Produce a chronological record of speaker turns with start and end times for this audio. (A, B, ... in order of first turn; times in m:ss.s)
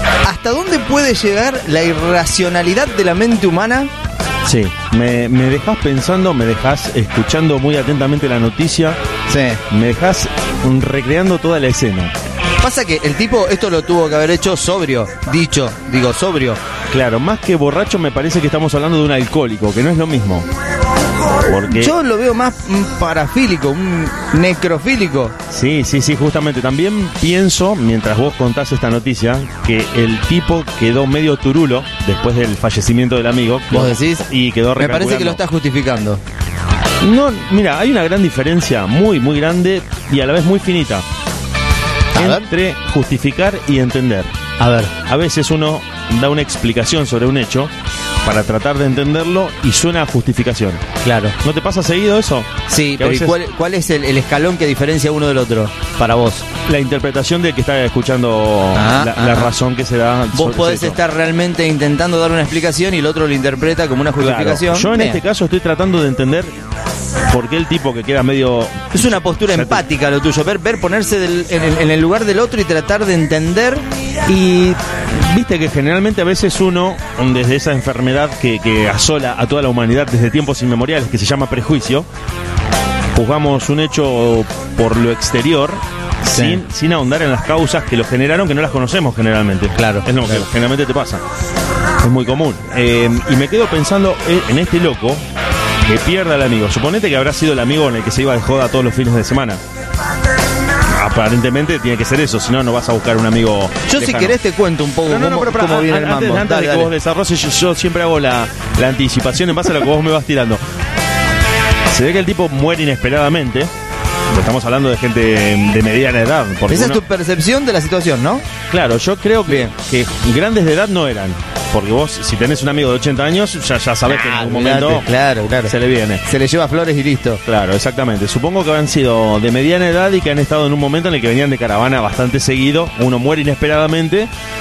0:00.2-0:03.9 A
0:04.4-0:09.0 B
0:09.3-0:09.6 A
0:09.7-0:12.1 B
0:12.6-0:16.6 A
0:16.9-0:20.5 B
0:21.4-0:21.9 B
0:21.7-0:25.4 A
0:25.5-0:35.4 B
0:33.7-0:34.2 A
0:34.8-0:36.2 A
0:37.0-0:41.0 B
0:42.1-0:42.5 A
0:42.2-0:44.3 B
0:44.6-0:44.9 A
0:45.0-0:47.7 B
0:48.2-0:50.8 B
0:51.0-0:51.4 A
0:51.4-0:53.4 B
0:52.7-0:56.5 A
0:56.7-1:01.0 B
0:58.7-0:59.5 A
1:00.3-1:05.2 A
1:04.2-1:06.5 B
1:07.3-1:09.8 B
1:08.9-1:13.9 A
1:14.3-1:22.1 B
1:23.1-1:31.2 B
1:26.3-1:26.6 A
1:29.8-1:30.5 A
1:32.0-1:35.2 B
1:35.9-1:39.6 B
1:41.0-1:44.4 B
1:43.9-1:46.9 A
1:45.1-1:50.6 B
1:51.9-1:53.7 B
1:54.3-1:57.0 B
1:56.7-1:58.4 A
1:58.7-2:05.1 B
2:04.1-2:07.4 A
2:05.7-2:06.2 B
2:07.4-2:14.3 B